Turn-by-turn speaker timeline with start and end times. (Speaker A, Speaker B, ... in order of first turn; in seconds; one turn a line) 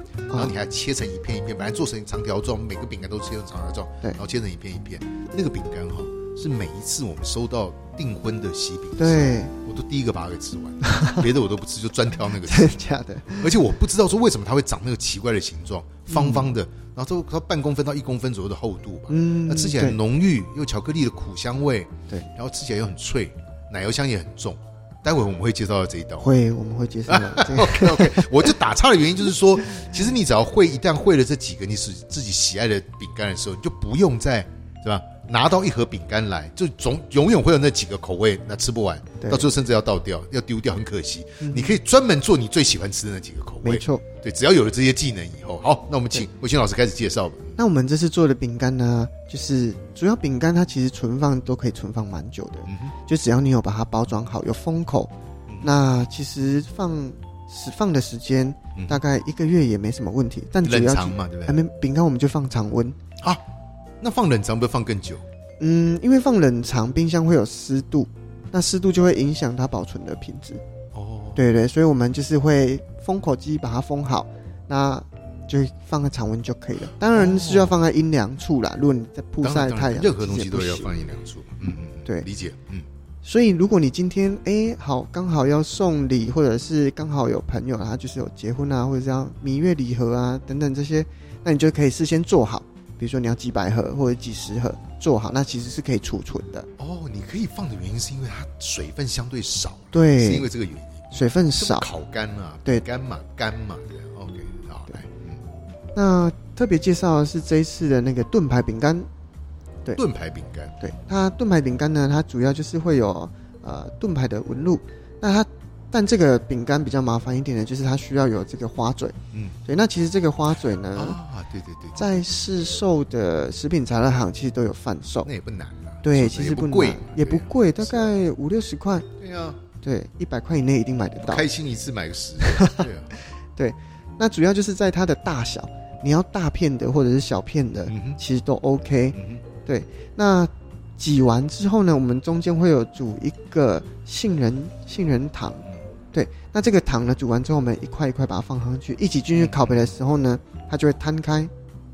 Speaker A: 0.3-0.5
Speaker B: 0.3-26.3
Speaker A: 9.0-9.5
Speaker A: 10.8-11.2
Speaker A: 12.4-13.5
Speaker A: 16.1-16.5
Speaker A: 19.1-20.0
Speaker A: 26.2-28.5
Speaker B: 27.1-47.6
Speaker A: 39.2-39.5
Speaker A: 41.4-41.8
Speaker A: 43.6-44.0
Speaker A: 47.6-55.1
Speaker B: 52.6-52.9
Speaker A: 55.6-63.0
Speaker B: 58.7-59.0
Speaker B: 60.6-61.6
Speaker B: 64.0-65.2
Speaker A: 65.6-70.6
Speaker B: 70.9-71.4
Speaker A: 71.3-80.9
Speaker B: 77.1-77.8
Speaker B: 79.4-82.9
Speaker A: 83.2-96.7
Speaker B: 96.8-105.4
Speaker A: 99.9-100.5
Speaker A: 101.1-101.9
Speaker A: 105.9-109.1
Speaker B: 109.9-110.8
Speaker A: 110.8-121.2
Speaker B: 120.9-122.2
Speaker A: 122.0-125.3
Speaker B: 125.2-128.1
Speaker A: 126.0-129.1
Speaker B: 129.2-129.6
Speaker A: 129.8-131.4
Speaker B: 131.2-133.1
Speaker A: 132.4-132.8
Speaker A: 133.6-151.5
Speaker B: 137.9-138.2
Speaker B: 139.1-139.4
Speaker B: 149.3-149.9